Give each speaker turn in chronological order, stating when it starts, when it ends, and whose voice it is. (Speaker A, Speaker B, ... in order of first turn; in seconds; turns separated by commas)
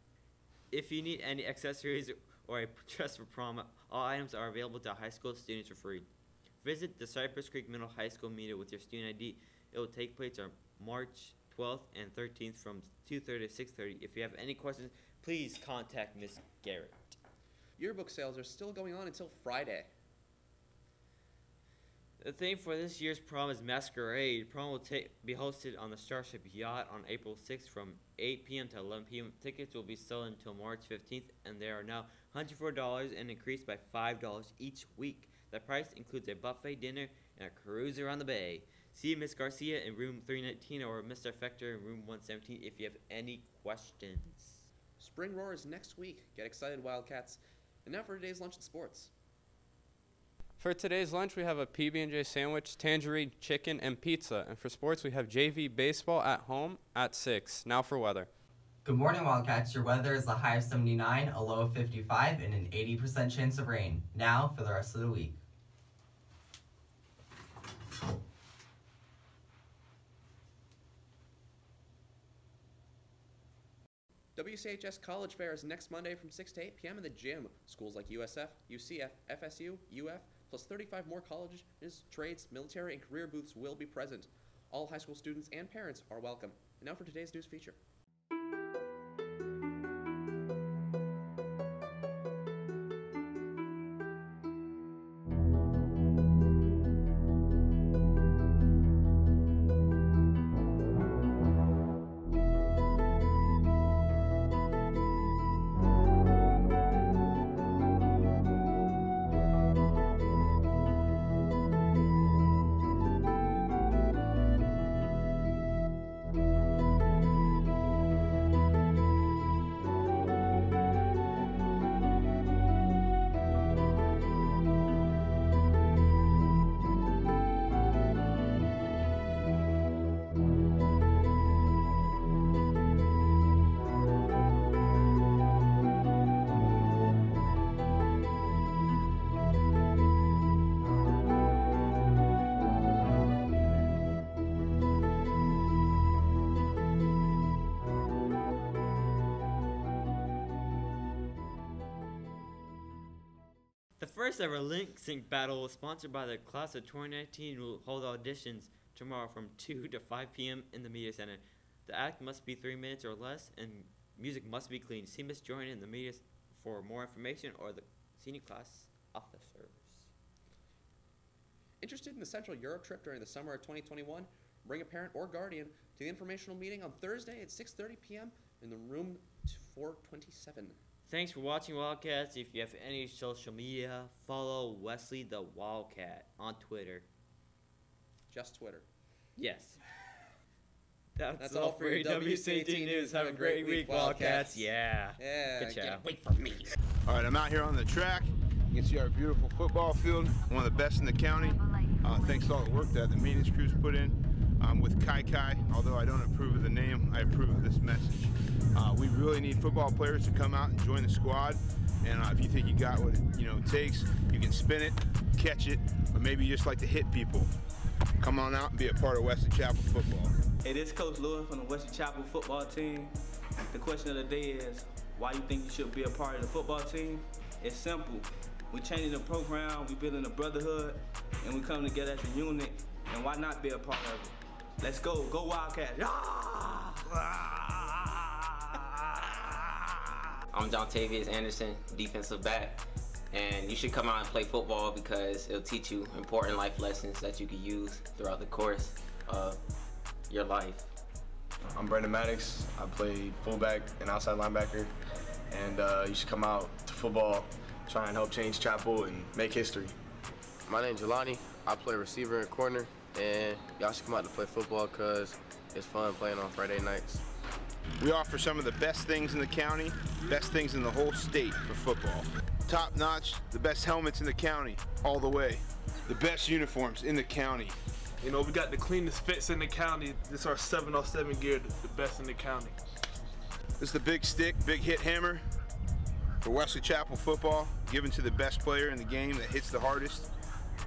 Speaker A: 0.7-6.1, Speaker A: 6.6-17.2, Speaker B: 17.8-19.9, Speaker A: 22.2-44.7, Speaker B: 45.0-49.1, Speaker C: 50.6-58.3, Speaker D: 58.9-65.4, Speaker B: 74.3-87.8, Speaker A: 154.0-170.1, Speaker B: 171.8-180.8, Speaker A: 181.1-187.1, Speaker B: 188.3-188.8, Speaker A: 189.4-190.0, Speaker A: 191.2-196.1, Speaker B: 191.4-194.7, Speaker B: 195.2-196.0, Speaker E: 196.0-196.6, Speaker F: 197.1-217.5, Speaker F: 218.2-220.3, Speaker G: 220.6-223.1, Speaker G: 223.7-237.0, Speaker E: 240.5-249.6, Speaker E: 250.3-250.9, Speaker H: 251.7-254.9, Speaker H: 255.5-259.9, Speaker I: 260.6-267.2, Speaker F: 268.0-277.8, Speaker J: 278.2-282.8, Speaker F: 283.8-285.4, Speaker F: 286.4-290.3